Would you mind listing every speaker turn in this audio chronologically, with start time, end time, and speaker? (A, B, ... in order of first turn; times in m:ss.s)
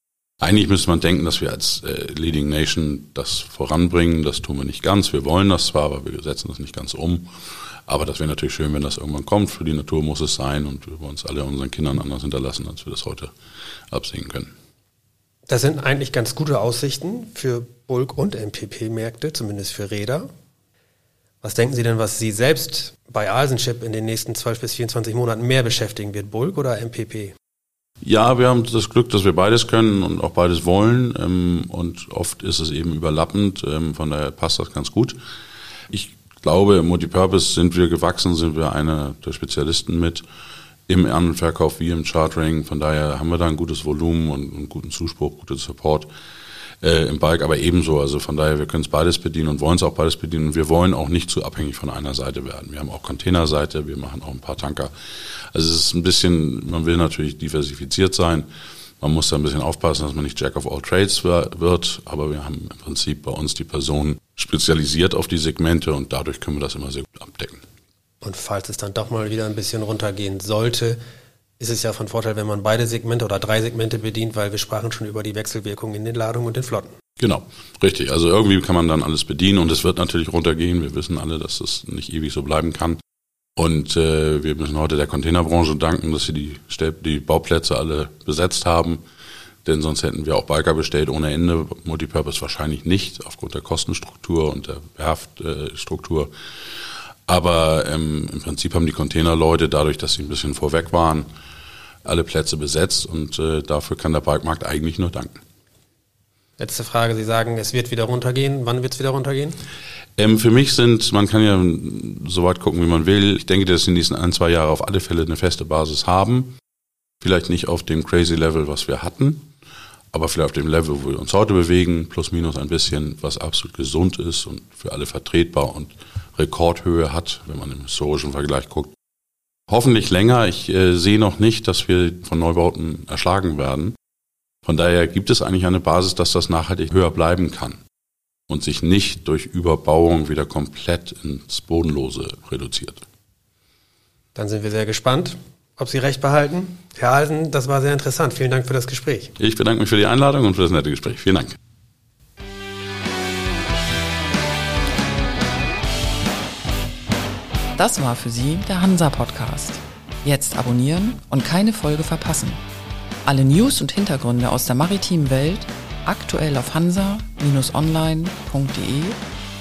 0:00.4-0:07.3 A
0:07.9-0:13.3 A
0:13.9-0:14.5 A
0:15.5-0:20.3 B
0:21.4-0:27.3 B
0:28.0-0:35.2 A
0:35.9-0:40.2 A
0:40.9-0:46.1 A
0:46.8-0:54.9 A
0:55.5-0:58.5 A
0:59.0-1:07.6 A
1:08.2-1:11.0 B
1:11.6-1:16.9 B
1:17.2-1:23.0 A
1:23.6-1:29.0 A
1:29.6-1:36.3 A
1:37.3-1:41.3 A
1:42.0-1:45.4 A
1:46.6-1:49.6 B
1:50.2-1:56.5 A
1:57.2-1:59.5 A
2:00.1-2:08.9 A
2:09.7-2:14.0 A
2:14.6-2:17.8 A
2:18.5-2:23.0 A
2:24.4-2:29.4 B
2:29.4-2:31.6 A
2:37.8-2:42.6 C
2:43.2-2:49.2 C